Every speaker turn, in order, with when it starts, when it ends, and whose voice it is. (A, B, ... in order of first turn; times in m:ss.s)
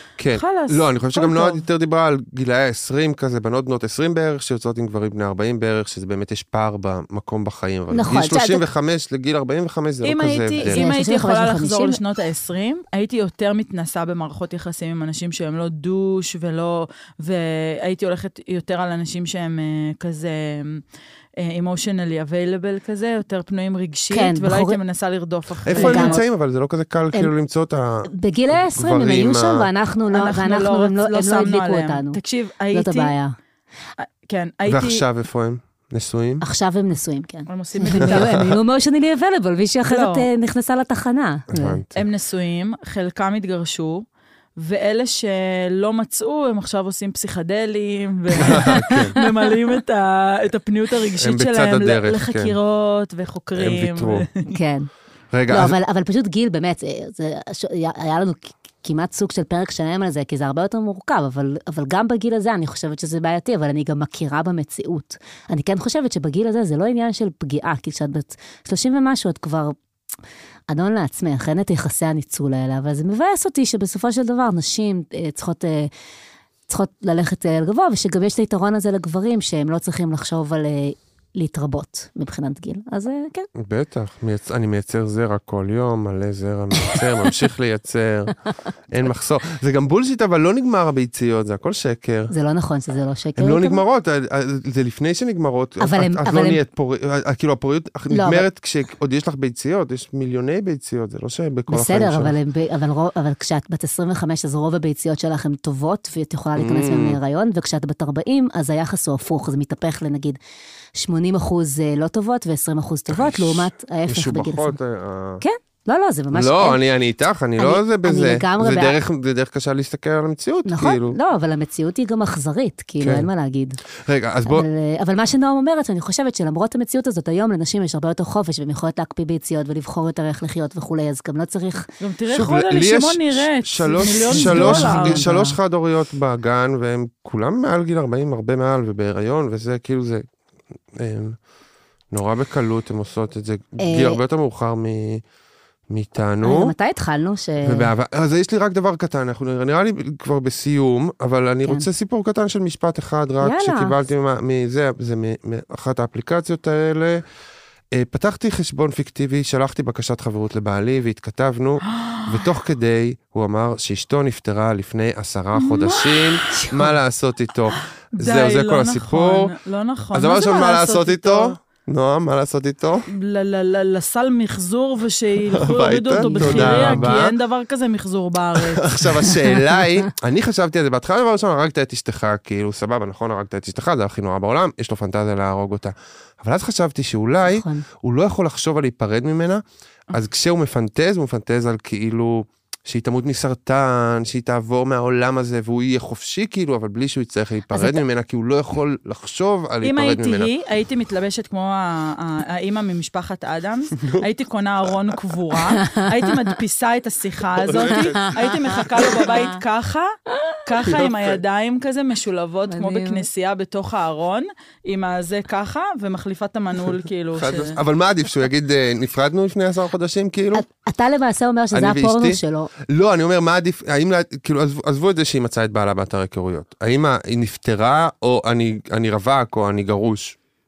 0:00.2-0:10.8 A
0:00.3-0:01.6 B
0:07.9-0:08.6 C
0:10.0-0:20.8 B
0:10.6-0:12.0 C
0:21.4-0:26.2 B
0:24.1-0:24.8 C
0:25.6-0:29.7 A
0:25.7-0:26.2 C
0:28.1-0:32.2 C
0:30.1-0:33.1 B
0:32.7-0:33.3 C
0:34.0-0:35.0 B
0:34.7-0:36.4 A
0:36.4-0:41.8 C
0:37.5-0:38.4 B
0:38.0-0:38.5 A
0:39.9-0:40.3 B
0:41.5-0:42.0 A
0:41.9-0:44.0 B
0:44.6-0:54.5 B
0:48.4-0:48.7 C
0:48.4-0:49.2 A
0:51.2-0:52.6 A
0:53.6-0:54.3 A
0:54.5-0:54.9 C
0:55.3-0:55.8 A
0:55.5-1:09.8 C
1:10.7-1:15.9 C
1:16.7-1:23.5 C
1:23.5-1:28.3 A
1:28.9-1:32.3 A
1:32.3-1:33.8 C
1:33.4-1:42.3 A
1:35.8-1:36.6 C
1:38.1-1:38.5 C
1:41.7-1:50.4 C
1:46.6-1:47.2 A
1:50.9-1:54.8 C
1:53.1-1:55.4 A
1:55.4-1:56.8 C
1:56.3-2:01.2 A
1:57.6-1:59.0 C
2:00.6-2:03.8 C
2:03.0-2:03.3 A
2:04.0-2:04.7 A
2:04.4-2:11.9 C
2:12.0-2:15.3 B
2:12.3-2:20.2 A
2:14.3-2:15.6 C
2:20.9-2:21.4 A
2:22.1-2:25.2 A
2:23.8-2:24.2 C
2:25.9-2:26.7 A
2:26.4-2:27.9 C
2:27.6-2:37.2 A
2:33.4-2:34.0 C
2:37.9-2:49.5 A
2:41.9-2:42.5 B
2:45.5-2:47.0 B
2:47.7-2:51.6 B
2:50.1-2:53.0 A
2:53.1-2:59.3 B
2:55.5-2:57.4 A
2:56.2-2:57.1 C
2:58.6-3:20.5 A
3:07.4-3:07.8 C
3:17.7-3:18.0 C
3:19.8-3:30.1 B
3:24.0-3:24.2 A
3:25.8-3:26.0 C
3:27.6-3:29.0 A
3:30.6-3:37.8 B
3:30.9-3:31.3 A
3:32.7-3:33.3 C
3:37.4-3:40.6 A
3:40.5-3:42.7 C
3:41.7-3:50.4 A